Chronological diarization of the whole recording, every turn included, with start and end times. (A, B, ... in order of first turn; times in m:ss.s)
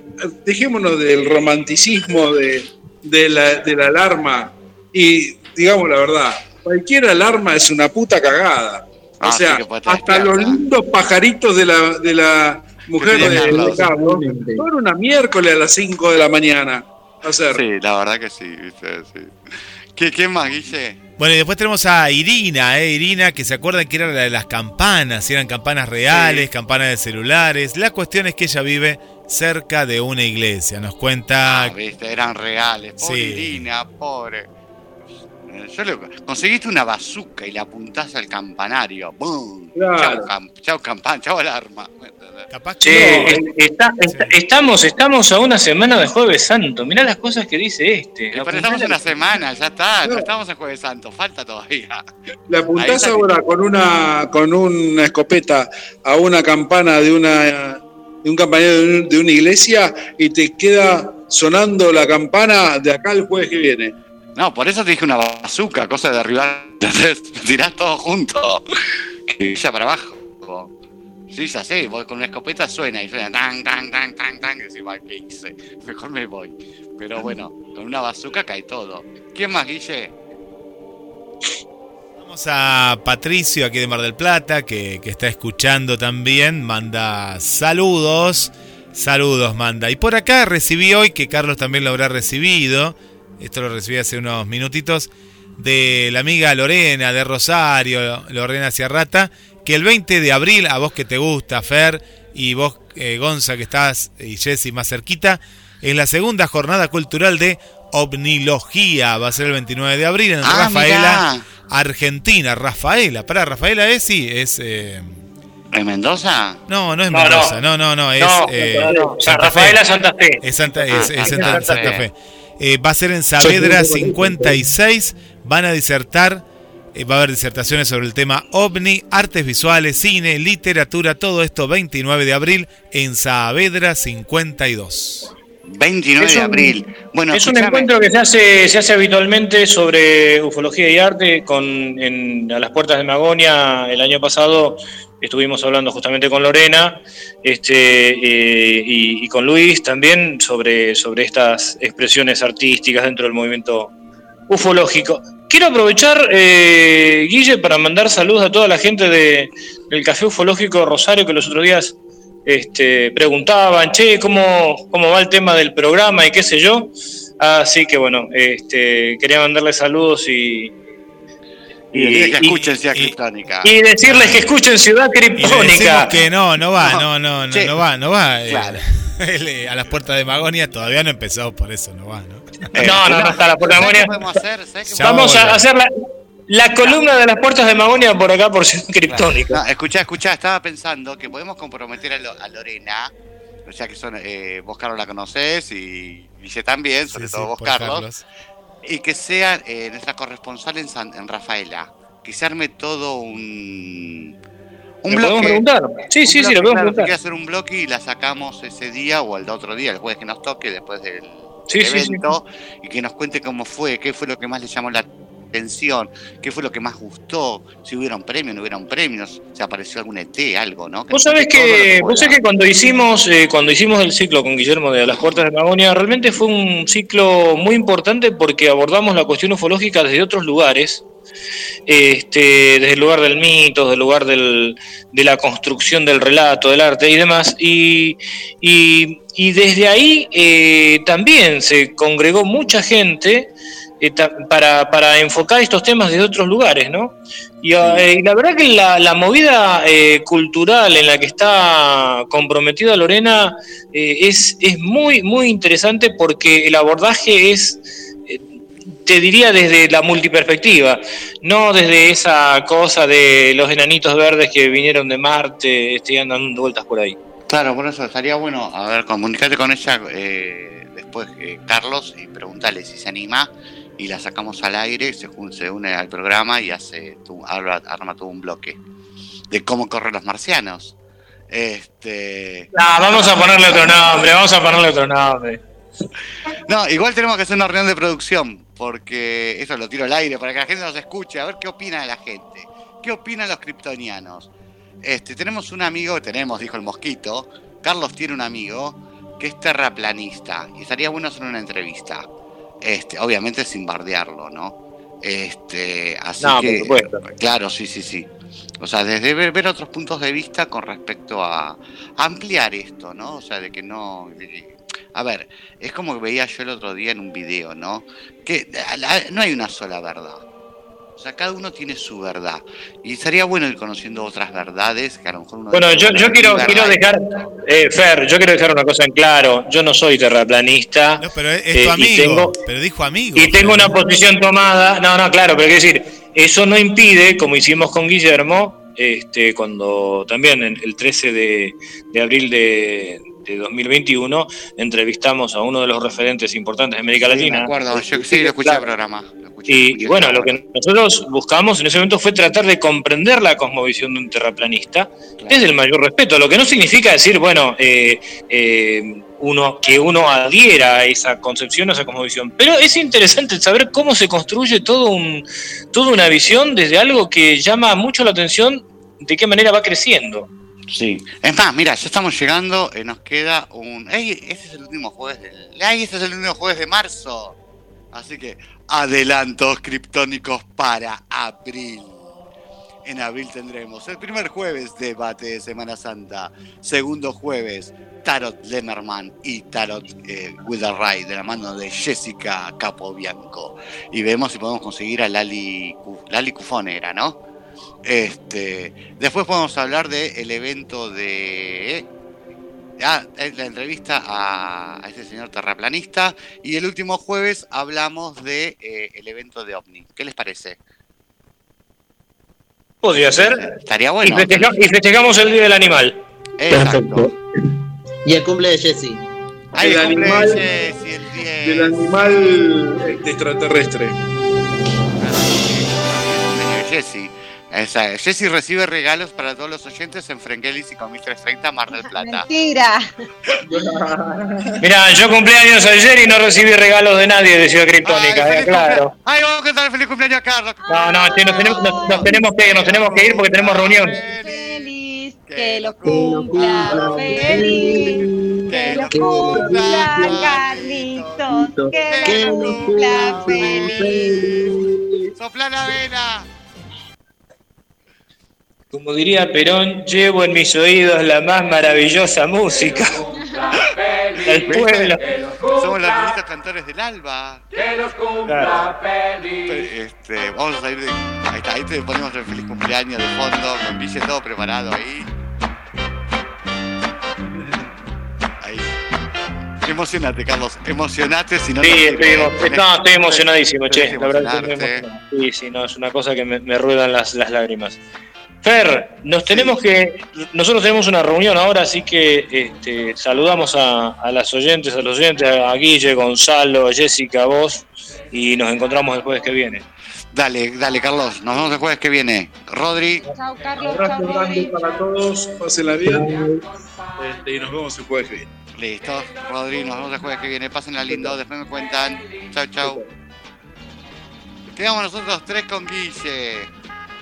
0:00.3-0:17.6 A
0:09.2-0:10.6 B
0:13.0-0:13.9 B
0:13.1-0:14.6 C
0:17.5-0:19.3 B
0:20.0-0:21.0 B
0:21.2-0:31.7 D
0:31.4-0:34.5 B
0:33.0-0:33.5 D
0:35.4-0:42.5 B
0:39.7-0:40.3 A
0:42.5-0:43.4 D
0:42.8-0:49.0 E
0:42.9-0:43.4 A
0:44.0-0:44.3 D
0:48.3-0:52.0 B
0:52.5-1:03.9 A
0:52.7-0:53.3 B
1:04.4-1:08.6 B
1:09.3-1:10.7 B
1:11.3-1:20.1 B
1:22.2-1:55.2 D
1:50.4-1:51.4 B
1:55.7-1:56.6 B
1:56.7-1:59.8 D
1:57.1-1:57.6 E
1:58.2-2:02.0 E
2:00.4-2:15.3 D
2:00.9-2:02.0 B
2:03.4-2:04.5 A
2:15.7-2:17.9 B
2:16.2-2:16.8 E
2:17.3-2:33.9 E
2:34.5-2:41.9 E
2:42.4-2:50.7 E
2:51.9-2:52.4 E
2:51.9-2:53.7 B
2:52.4-2:53.1 D
2:53.6-2:56.1 E
2:54.0-2:54.4 D
2:55.4-3:02.7 D
2:57.5-2:57.8 B
2:58.5-2:58.8 B
3:02.7-3:05.5 B
3:02.8-3:04.2 E
3:04.9-3:05.6 D
3:05.0-3:05.9 E
3:06.5-3:09.6 E
3:09.1-3:13.1 B
3:13.6-3:18.1 B
3:17.1-3:18.2 D
3:18.8-3:24.3 B
3:25.0-3:25.6 B
3:25.1-3:27.2 E
3:26.2-3:42.4 B
3:31.7-3:32.3 E
3:41.1-3:51.0 E
3:51.9-4:18.4 E
4:07.8-4:08.0 B
4:19.0-4:27.2 E
4:27.5-4:38.8 B
4:39.5-4:40.9 B
4:41.5-4:42.7 B
4:42.7-4:45.6 E
4:46.6-4:54.5 B
4:55.0-5:02.3 B
5:02.8-5:08.3 B
5:06.4-5:07.2 E
5:08.8-5:20.4 B
5:21.2-5:27.0 B
5:25.7-5:32.6 E
5:31.2-5:33.9 D
5:33.4-5:48.9 E
5:47.2-5:50.6 B
5:49.7-6:10.5 E
5:55.4-5:55.7 B
6:10.9-6:17.6 B
6:18.1-6:22.2 B
6:23.0-6:37.4 B
6:38.0-6:42.1 B
6:43.0-6:50.8 B
6:53.0-6:53.7 E
6:53.1-6:54.7 B
6:54.2-6:56.2 E
6:56.6-6:57.3 B
6:56.7-6:57.3 C
6:58.2-6:59.2 C
6:59.7-7:02.7 B
6:59.8-7:00.6 A
7:01.6-7:04.1 A
7:05.2-7:12.5 B
7:11.9-7:13.1 F
7:13.6-7:14.8 A
7:14.8-7:19.1 E
7:18.0-7:24.9 B
7:20.9-7:22.3 F
7:20.9-7:24.2 E
7:24.1-7:34.5 F
7:25.4-7:34.7 B
7:26.0-7:30.5 C
7:31.5-7:35.3 C
7:35.4-7:36.5 B
7:38.9-7:43.4 E
7:44.3-7:48.4 B
7:44.4-7:45.3 E
7:48.4-7:48.9 E
7:49.5-7:55.3 B
7:58.6-7:58.9 B
7:59.8-8:05.0 B
8:01.8-8:08.0 E
8:08.6-8:19.8 E
8:09.5-8:09.8 B
8:20.3-8:23.2 B
8:23.3-8:24.7 F
8:23.8-8:26.6 A
8:27.2-8:28.5 A
8:28.8-8:33.0 B
8:31.1-8:31.4 A
8:34.7-8:36.7 B